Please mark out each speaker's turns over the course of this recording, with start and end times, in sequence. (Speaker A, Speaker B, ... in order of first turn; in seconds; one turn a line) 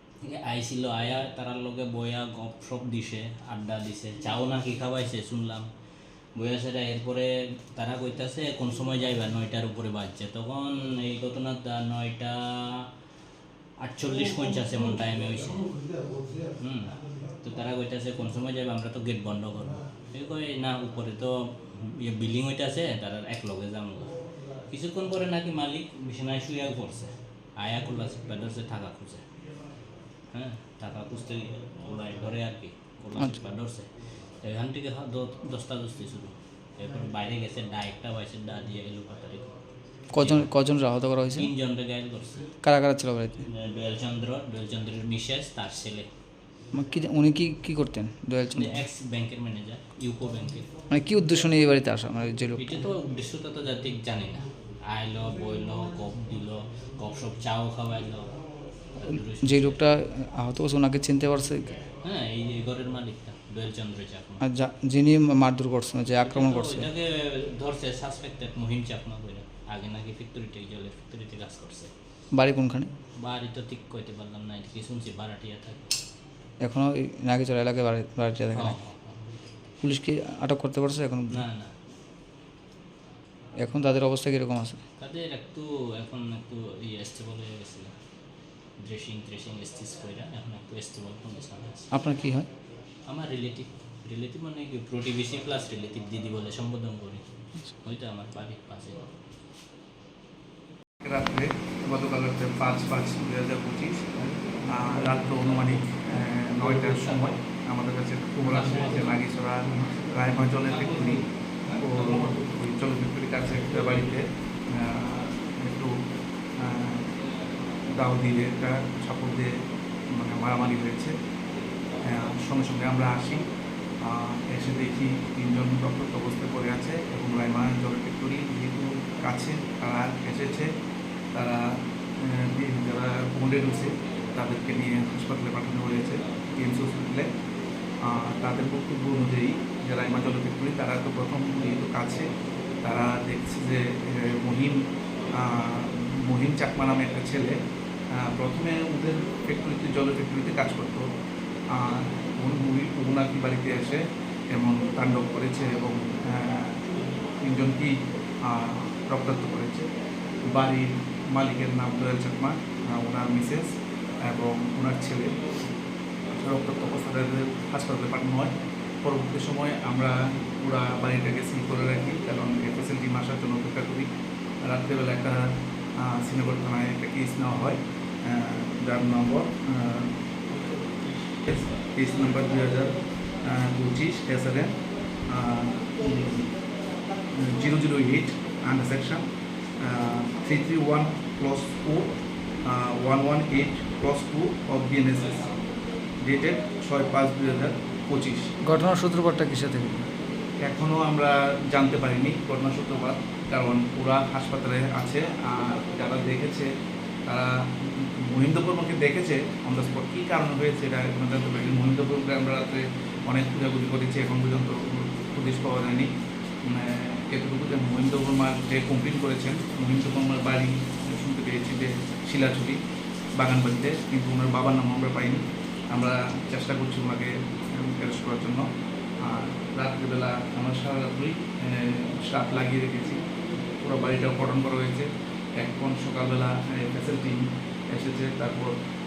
Speaker A: 0.2-5.7
Speaker A: 6.3-12.9
Speaker A: 13.8-15.7
Speaker A: 16.6-24.1
Speaker A: 24.7-29.2
Speaker A: 30.3-33.9
Speaker A: 34.4-39.5
Speaker B: 40.1-41.5
Speaker A: 40.2-40.5
Speaker A: 41.3-42.5
Speaker B: 42.6-43.5
Speaker A: 43.5-46.1
Speaker B: 46.7-48.8
Speaker A: 48.5-50.7
Speaker B: 50.9-52.8
Speaker A: 52.6-58.3
Speaker A: 59.0-59.8
Speaker B: 59.4-61.8
Speaker A: 62.0-64.4
Speaker B: 64.4-66.9
Speaker A: 66.2-71.9
Speaker B: 72.3-72.9
Speaker A: 73.2-75.9
Speaker B: 76.6-78.8
Speaker A: 78.5-79.2
Speaker B: 79.8-81.4
Speaker A: 81.3-81.7
Speaker B: 83.6-84.8
Speaker A: 85.0-87.9
Speaker A: 88.8-91.9
Speaker B: 91.9-92.5
Speaker A: 93.1-97.2
Speaker A: 97.8-99.0
Speaker C: 101.0-104.1
Speaker C: 104.7-111.2
Speaker C: 111.8-115.9
Speaker C: 116.6-117.0
Speaker C: 117.9-119.5
Speaker C: 120.1-121.1
Speaker C: 122.0-123.4
Speaker C: 124.0-130.7
Speaker C: 131.3-131.6
Speaker C: 132.2-137.3
Speaker C: 138.0-142.3
Speaker C: 142.8-144.8
Speaker C: 145.3-147.6
Speaker C: 148.1-151.0
Speaker C: 151.7-154.0
Speaker C: 154.5-156.8
Speaker C: 157.4-159.9
Speaker C: 160.5-163.7
Speaker C: 164.2-165.4
Speaker C: 166.4-168.5
Speaker C: 169.0-174.1
Speaker C: 174.6-180.1
Speaker C: 181.4-184.8
Speaker C: 185.3-186.5
Speaker C: 187.3-189.2
Speaker C: 189.8-192.1
Speaker C: 192.6-195.4
Speaker C: 196.2-198.4
Speaker B: 198.7-200.0
Speaker C: 200.6-206.7
Speaker C: 207.3-216.1
Speaker C: 216.7-222.8
Speaker C: 223.4-228.7
Speaker C: 229.2-233.2
Speaker C: 233.8-235.1
Speaker C: 235.6-238.7